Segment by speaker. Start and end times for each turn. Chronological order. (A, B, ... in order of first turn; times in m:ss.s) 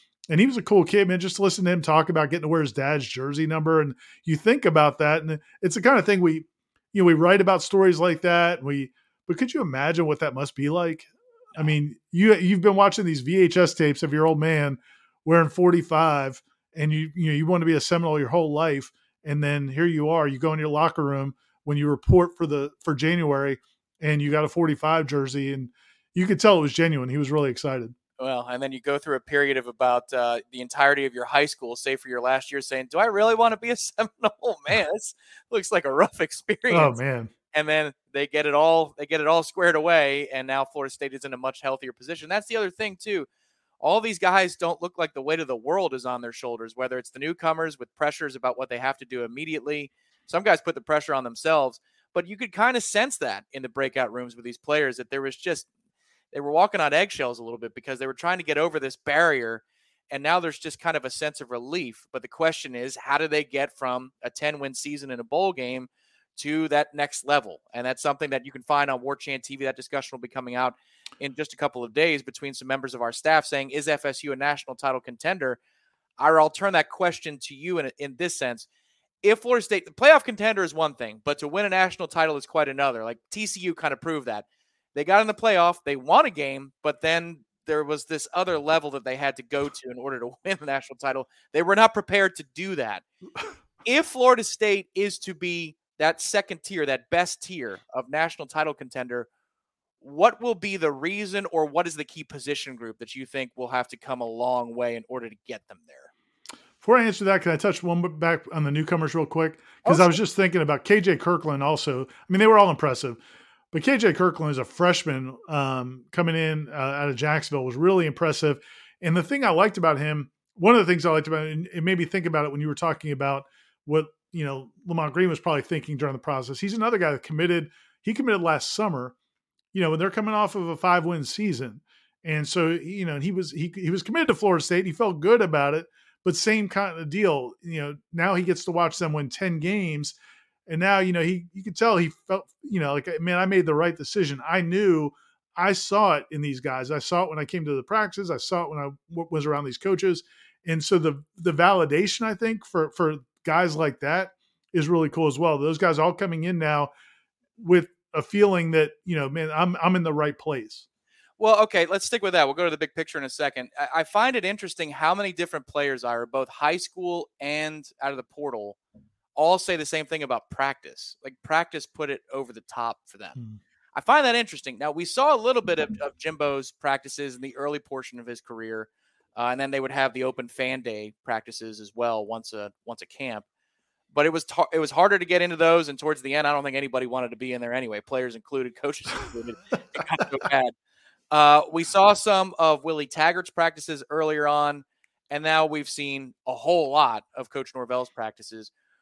0:00.3-0:28.0 A
0:28.2-0:37.0 B
0:36.7-0:37.3 A
0:37.5-0:43.3 B
0:43.8-0:55.7 B
0:56.3-1:15.6 B
1:16.2-1:18.7 B
1:19.2-1:33.0 B
1:33.8-1:39.3 B
1:40.0-1:46.1 B
1:46.8-1:53.2 A
1:49.8-1:50.2 B
1:53.7-2:09.2 A
2:09.7-2:20.2 A
2:20.7-2:36.9 A
2:37.6-2:40.8 A
2:41.4-2:48.8 B
2:49.4-2:53.4 B
2:53.9-3:03.4 B
3:04.1-3:10.7 B
3:11.3-3:18.7 B